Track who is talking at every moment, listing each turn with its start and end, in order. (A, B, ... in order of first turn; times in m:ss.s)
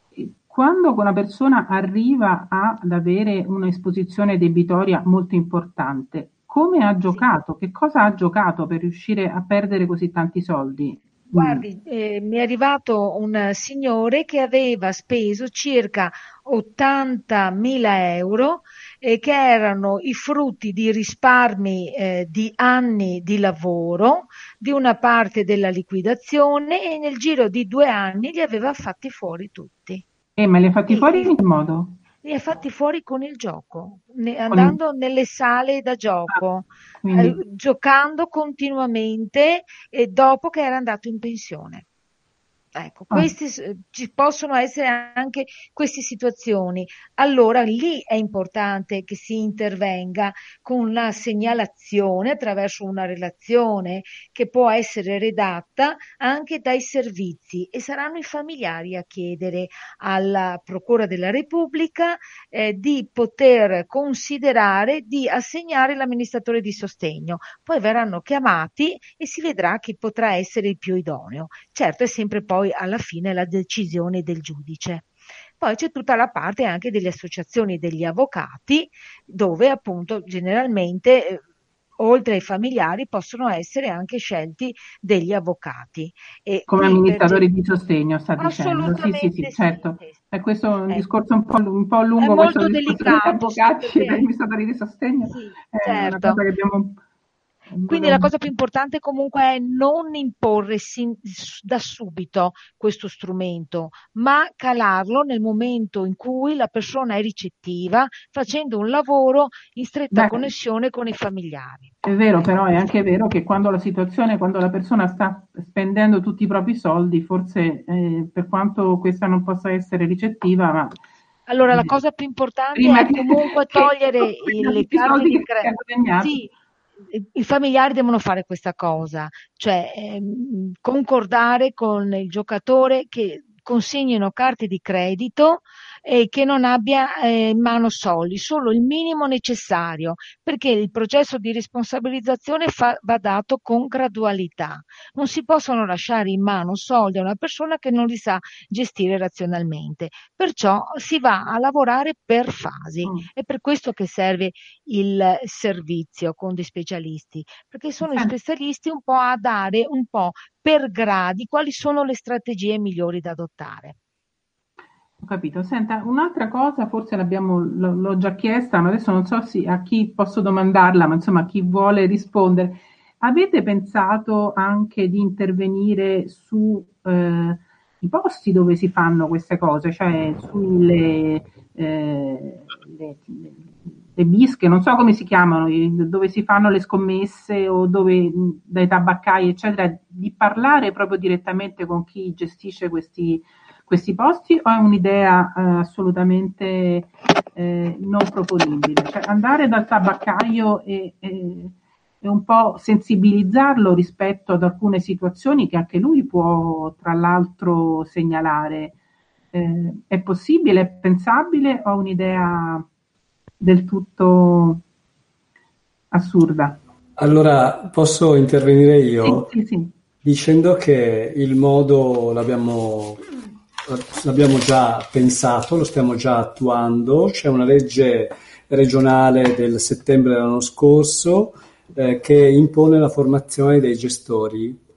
0:00.2-0:11.6 A
0:11.4-0:30.0 B
0:30.4-0:32.0 A
0:30.9-0:31.3 B
0:32.2-0:41.8 B
0:34.5-0:34.8 A
0:37.0-0:37.4 A
0:42.8-1:21.4 B
1:22.0-1:27.4 B
1:26.7-1:37.0 A
1:28.4-1:30.2 B
1:32.2-1:34.3 B
1:35.3-1:36.4 B
1:37.7-1:38.3 A
1:37.9-1:51.9 B
1:50.1-1:50.5 A
1:52.0-2:01.0 A
2:01.5-2:06.5 B
2:02.8-2:06.3 A
2:07.1-2:44.0 B
2:38.0-2:38.3 A
2:45.2-3:29.0 A
3:29.5-3:32.9 A
3:33.6-3:34.8 A
3:36.1-3:36.8 A
3:37.2-3:39.5 C
3:39.2-3:39.9 A
3:40.2-3:43.2 C
3:43.9-3:54.8 C